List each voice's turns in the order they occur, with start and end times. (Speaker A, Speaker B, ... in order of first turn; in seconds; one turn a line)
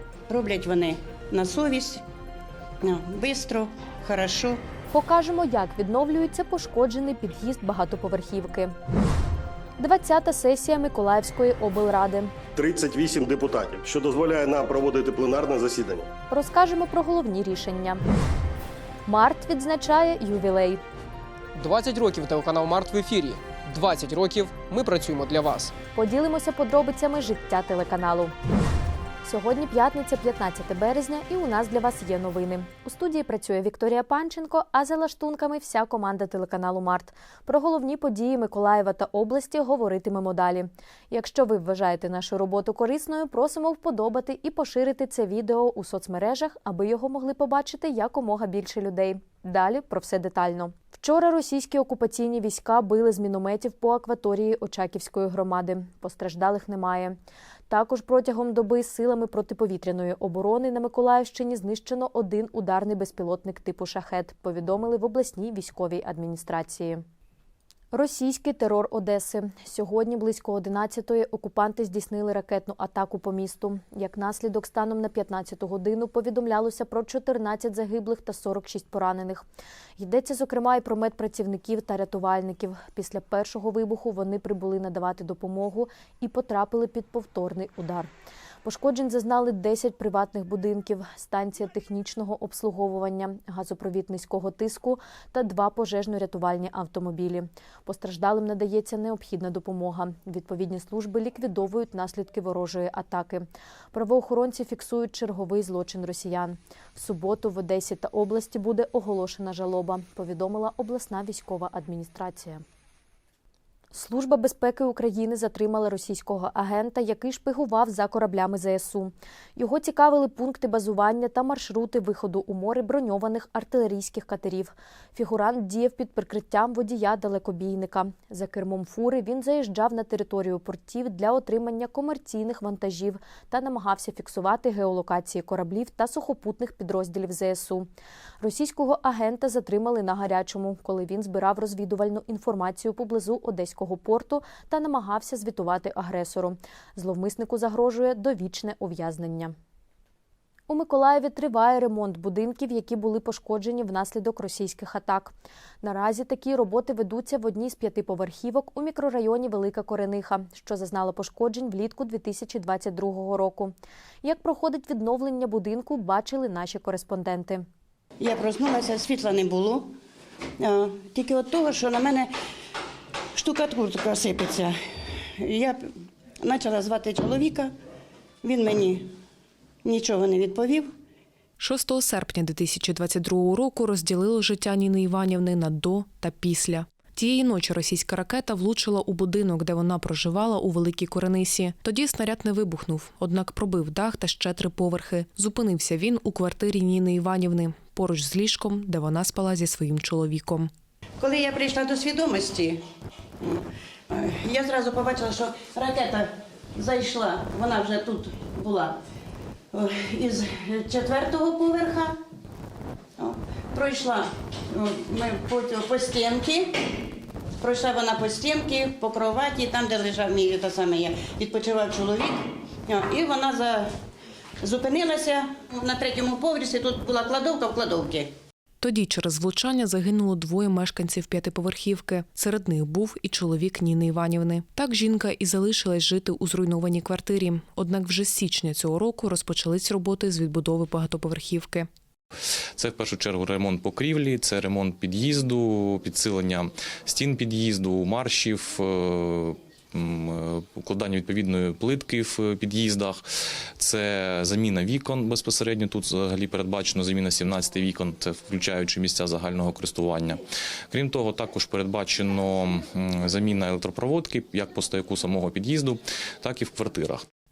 Speaker A: 0.3-2.0
Speaker A: 2.8-4.6
Speaker B: 4.9-8.7
Speaker B: 9.8-12.3
Speaker C: 12.6-16.1
Speaker B: 16.3-18.0
Speaker B: 19.1-20.8
Speaker D: 21.6-25.7
Speaker B: 25.9-28.3
Speaker B: 29.2-57.1
Speaker B: 57.7-67.0
Speaker B: 67.9-79.4
Speaker B: 80.0-88.1
Speaker B: 88.6-112.6
Speaker B: 113.9-137.9
Speaker B: 138.4-149.5
Speaker B: 150.7-167.6
Speaker A: 168.2-170.0
Speaker A: 170.6-172.3
Speaker A: 173.3-174.8
Speaker A: 175.4-177.7
Speaker A: 178.4-179.1
Speaker A: 179.8-180.9
Speaker E: 181.6-200.7
Speaker A: 201.2-202.8
Speaker A: 203.4-209.0
Speaker A: 209.7-212.2
Speaker A: 213.2-216.8
Speaker A: 217.6-223.9
Speaker A: 224.6-228.3
Speaker E: 228.8-241.9
Speaker F: 242.8-253.2
Speaker F: 253.8-267.2